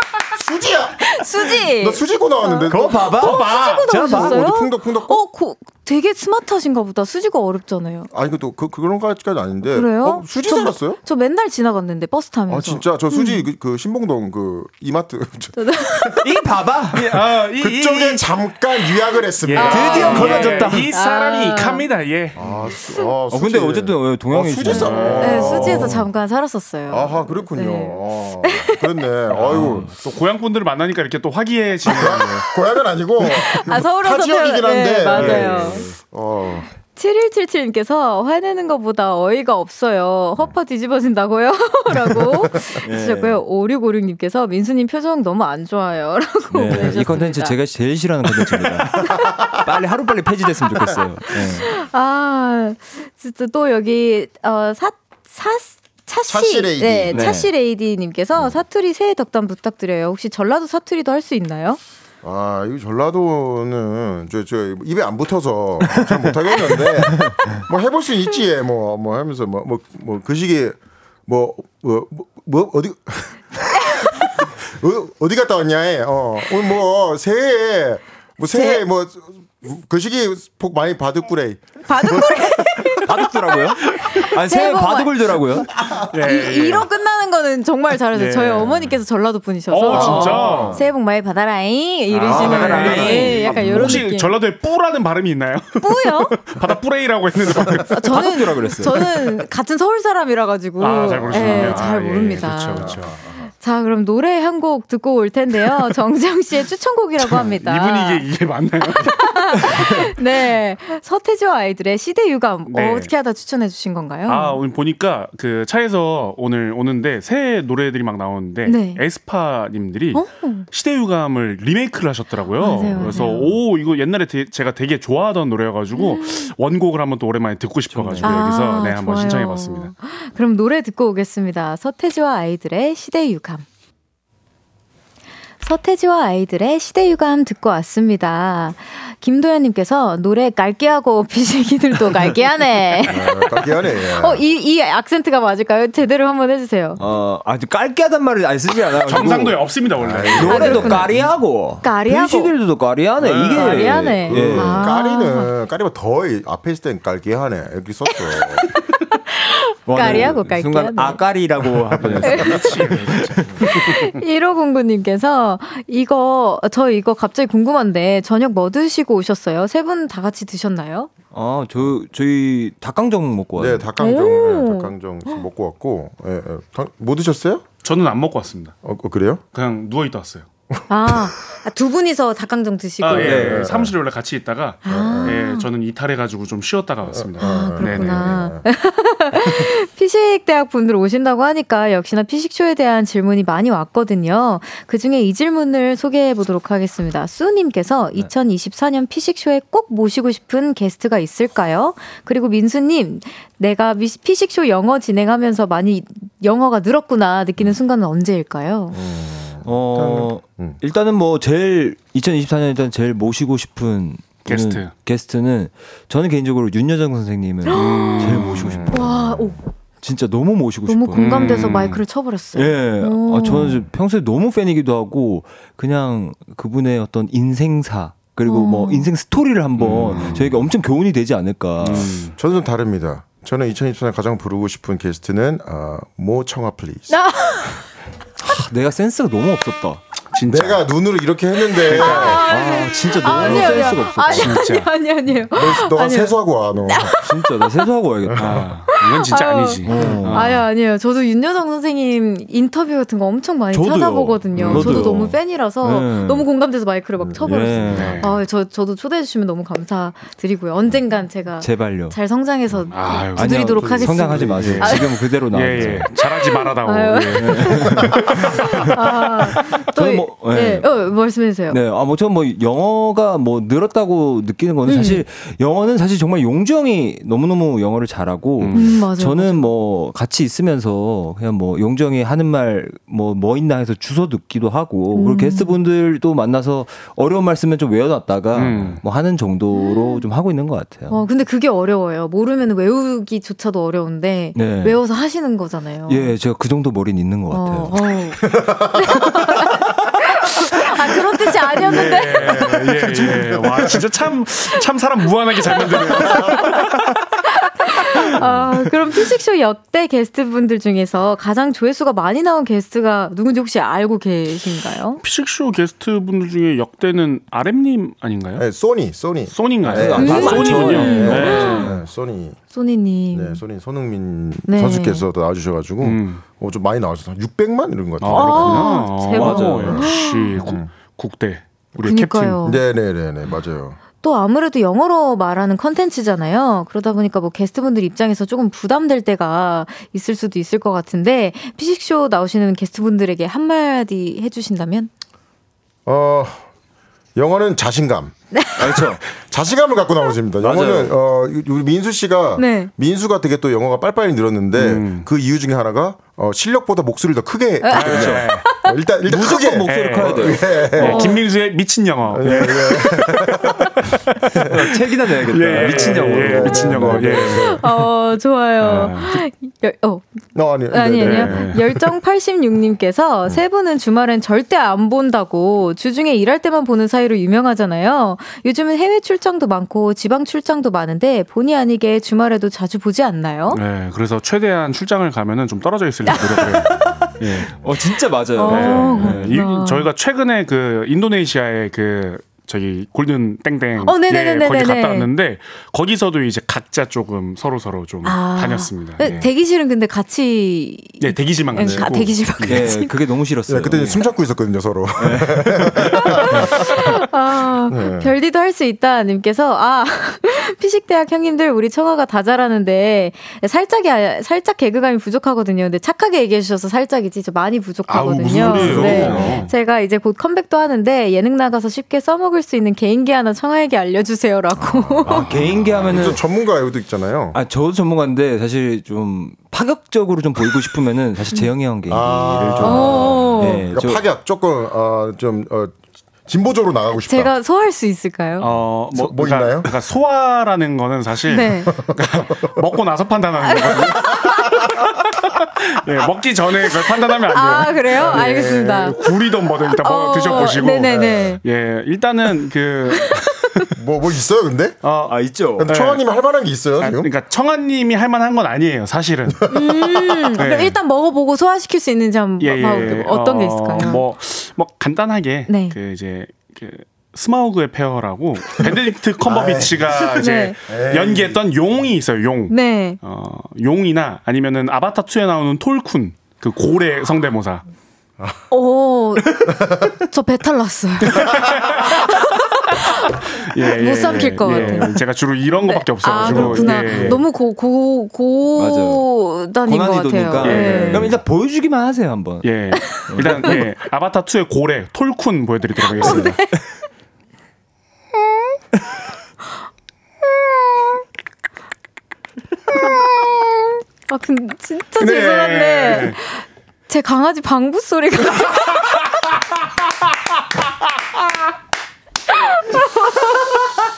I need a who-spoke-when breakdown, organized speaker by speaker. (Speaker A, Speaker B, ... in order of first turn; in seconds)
Speaker A: 0.3-3.4, 4.1-5.2, 8.1-11.0, 12.5-16.1, 17.4-20.7, 22.4-26.0, 26.9-29.9, 31.8-36.7, 46.7-47.1, 48.6-49.6, 56.2-57.4, 58.4-58.6, 62.2-83.0, 85.7-86.1, 89.9-90.8, 101.3-101.8, 102.7-103.4, 143.1-144.4, 150.0-151.3, 153.7-158.7, 162.0-162.4, 173.6-177.7, 178.8-179.4, 183.2-183.9, 184.8-185.4, 187.1-188.6, 208.9-210.8, 218.5-219.5, 230.1-230.4, 232.4-237.2, 240.5-242.4, 245.5-247.2, 248.2-248.7, 249.9-250.3, 257.2-258.2, 263.7-264.9, 267.8-268.1, 298.5-299.4, 302.1-304.0, 306.2-306.5, 318.6-322.6, 323.3-330.9, 332.6-334.0, 346.1-346.6, 347.3-361.4, 362.3-363.9, 365.7-367.9, 370.5-372.0, 401.8-402.2, 403.7-407.0, 407.9-408.3, 418.6-419.5, 424.8-427.6, 432.1-437.5, 439.1-439.9, 441.9-442.2, 443.8-444.5, 451.1-451.6, 453.9-455.0, 455.8-457.3, 459.6-460.5, 462.9-463.1, 469.4-471.6, 479.8-480.1, 486.6-487.3
Speaker B: 1.0-8.1, 9.7-13.4, 15.6-16.3, 19.5-21.8, 22.8-23.0, 24.7-29.0, 33.2-35.9, 36.9-47.6, 51.5-61.8, 78.4-78.8, 81.8-94.3, 95.8-96.3, 97.9-103.0, 103.6-108.2, 109.0-114.6, 118.7-119.0, 120.1-120.7, 122.6-123.5, 125.9-126.5, 128.2-133.6, 135.6-143.3, 143.9-147.0, 150.4-151.0, 151.8-152.5, 153.5-155.5, 158.3-161.2, 162.2-162.6, 163.6-171.1, 174.0-175.4, 180.9-183.4, 184.8-185.7, 187.4-209.0, 217.7-219.6, 220.8-223.9, 228.4-229.1, 237.1-237.8, 241.8-246.4, 246.9-247.8, 248.9-265.1, 266.2-271.8, 274.8-275.2, 278.7-279.7, 285.1-285.8, 289.7-290.2, 291.1-296.3, 297.5-302.7, 306.1-306.9, 307.4-315.2, 320.2-321.9, 322.7-323.6, 324.7-325.2, 328.3-330.6, 332.0-332.8, 334.2-345.1, 348.5-348.8, 352.6-352.9, 357.8-358.9, 361.0-361.4, 365.9-366.2, 367.6-383.8, 386.2-387.2, 388.5-390.1, 394.0-395.3, 398.2-403.2, 406.2-425.5, 432.8-433.8, 437.2-438.7, 441.5-441.9, 443.7-444.6, 447.5-449.2, 449.9-451.6, 453.1-453.8, 459.7-464.2, 465.7-465.9, 470.4-470.8, 472.7-473.2, 478.7-485.2, 485.8-491.4, 492.9-493.7, 496.2-496.8, 500.7-501.2, 502.9-509.3, 512.5-513.9
Speaker C: 2.7-4.6, 16.2-17.1, 19.6-20.9, 23.3-26.0, 29.4-30.0, 42.8-43.4, 46.5-51.7, 57.1-57.5, 65.9-67.6, 83.0-85.7, 92.3-94.0, 98.0-99.1, 101.4-101.8, 122.9-123.4, 127.9-128.5, 147.0-149.8, 150.3-154.9, 159.9-163.5, 171.3-173.9, 183.2-183.6, 209.6-219.3, 220.0-221.6, 222.5-232.2, 238.4-240.0, 242.4-244.6, 247.2-248.7, 249.8-250.6, 253.7-256.5, 257.4-258.2, 261.6-262.2, 263.3-266.1, 267.4-268.9, 269.6-271.2, 271.7-291.2, 294.5-295.0, 296.1-298.1, 308.6-308.9, 319.8-321.8, 329.3-330.1, 348.8-349.2, 350.6-351.1, 358.0-358.4, 359.2-361.1, 364.6-367.6, 386.4-386.8, 387.5-389.6, 402.6-404.2, 405.2-406.6, 418.6-419.6, 425.2-426.4, 427.5-434.2, 455.3-455.9, 484.6-485.0, 486.4-486.9, 488.8-489.3, 489.8-493.9
Speaker D: 16.9-18.3, 19.4-22.4, 24.7-25.9, 29.3-32.5, 35.1-35.7, 86.1-86.9, 88.1-89.0, 89.7-90.8, 92.1-98.2, 100.8-103.1, 107.3-109.3, 112.7-113.1, 114.3-129.9, 148.9-151.2, 153.2-154.2, 162.2-164.1, 177.8-178.7, 179.5-180.5, 183.0-188.3, 214.4-214.9, 217.7-218.7, 221.1-222.0, 229.8-230.5, 231.8-232.3, 240.3-240.8, 241.8-242.4, 243.3-244.9, 248.4-250.6, 254.5-255.0, 257.9-258.3, 262.9-263.8, 264.5-268.6, 278.6-279.0, 288.5-289.0, 301.8-307.2, 315.2-318.6, 319.5-322.0, 326.0-326.4, 328.2-332.6, 354.7-355.3, 358.0-358.8, 359.8-363.3, 365.3-367.9, 368.8-369.4, 371.2-371.8, 383.7-387.9, 388.6-399.5, 401.2-402.9, 418.1-419.7, 438.6-444.4, 445.6-453.8, 455.0-456.2, 457.0-459.6, 460.6-461.0, 462.6-477.8, 481.3-482.6, 483.3-487.4, 490.6-491.4, 492.6-496.6, 505.2-506.4, 509.3-509.8